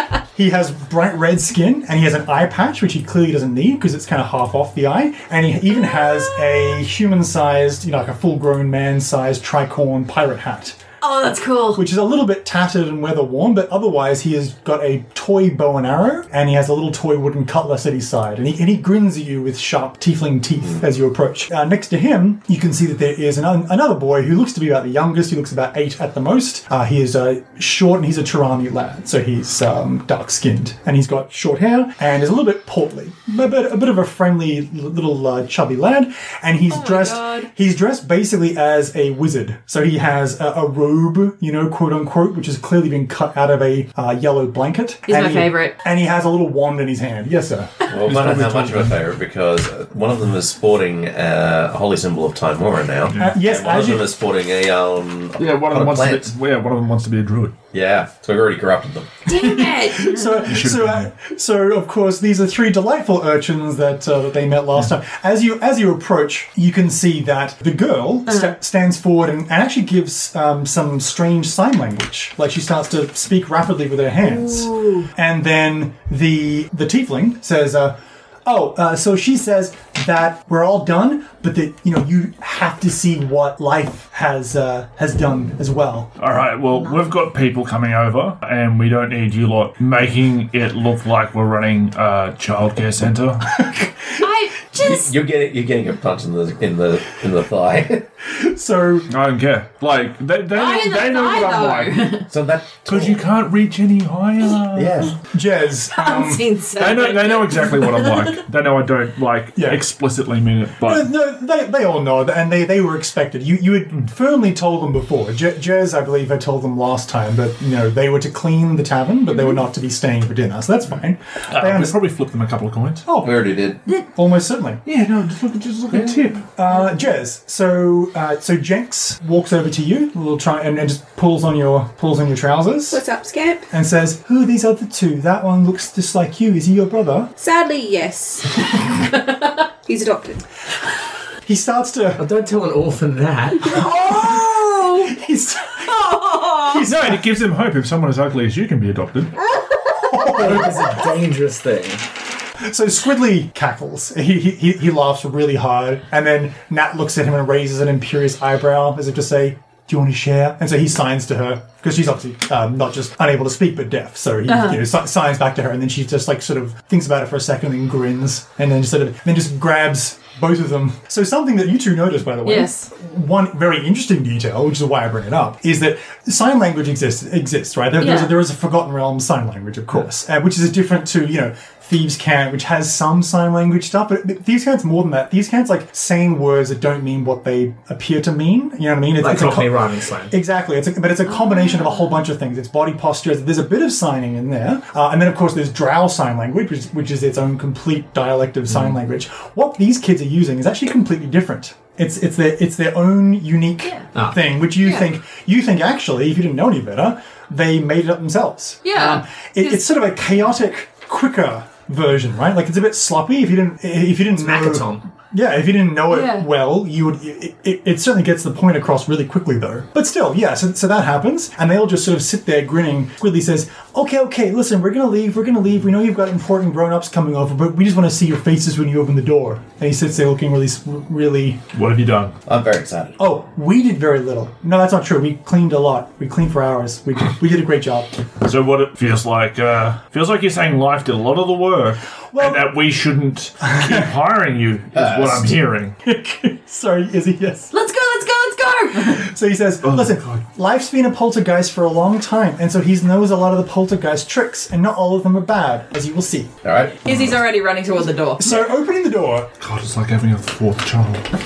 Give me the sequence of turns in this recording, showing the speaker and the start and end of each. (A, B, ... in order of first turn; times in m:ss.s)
0:00.4-0:10.8 A
0:11.0-0:11.8 B
0:11.8-0:47.8 A
0:36.7-0:37.5 B
0:45.1-0:45.7 B
0:47.9-0:56.3 C
0:48.0-0:49.0 D
0:53.1-0:53.4 D
0:53.2-0:54.1 A
0:55.4-0:57.6 D
0:57.7-0:59.2 C
0:59.3-1:00.5 B
0:59.3-1:26.1 A
1:00.5-1:01.1 D
1:08.3-1:08.5 B
1:14.2-1:15.1 B
1:26.2-1:33.6 D
1:33.6-1:33.9 A
1:34.2-1:35.1 B
1:34.8-1:38.1 C
1:38.3-1:39.1 A
1:39.1-1:42.1 D
1:40.5-1:42.3 B
1:42.3-1:43.2 C
1:42.8-1:45.1 D
1:44.7-1:45.2 C
1:45.3-1:46.5 A
1:45.9-1:48.3 B
1:46.8-1:51.1 D
1:49.6-1:49.8 A
1:50.8-2:02.0 A
2:01.5-2:03.1 D
2:03.0-2:04.8 A
2:03.2-2:03.8 C
2:04.8-2:06.5 D
2:06.5-2:13.0 A
2:12.9-2:13.7 E
2:13.7-2:17.3 A
2:17.4-2:19.3 E
2:19.9-2:20.4 E
2:21.4-2:22.2 A
2:22.2-2:23.8 F
2:23.6-2:27.2 A
2:23.8-2:25.1 B
2:25.9-2:26.8 B
2:26.8-2:29.3 D
2:29.6-2:30.1 B
2:30.0-2:30.9 A
2:30.2-2:32.0 F
2:32.6-3:51.7 A
2:44.5-2:44.8 B
2:52.4-2:52.9 B
2:58.0-2:58.4 B
3:09.2-3:10.4 F
3:11.5-3:12.0 B
3:24.8-3:25.1 B
3:28.8-3:29.8 B
3:34.4-3:35.0 F
3:36.1-3:36.5 B
3:51.7-3:52.4 D
3:52.5-3:53.2 C
3:53.2-3:58.1 A
3:58.4-4:06.0 D
4:02.3-4:02.7 A
4:03.7-4:04.0 A
4:04.9-4:05.6 C
4:06.0-4:07.7 A
4:07.7-4:09.3 B
4:09.0-4:16.5 A
4:09.8-4:10.2 D
4:16.6-4:17.4 C
4:17.0-4:18.6 B
4:18.4-4:19.5 A
4:19.6-4:21.3 D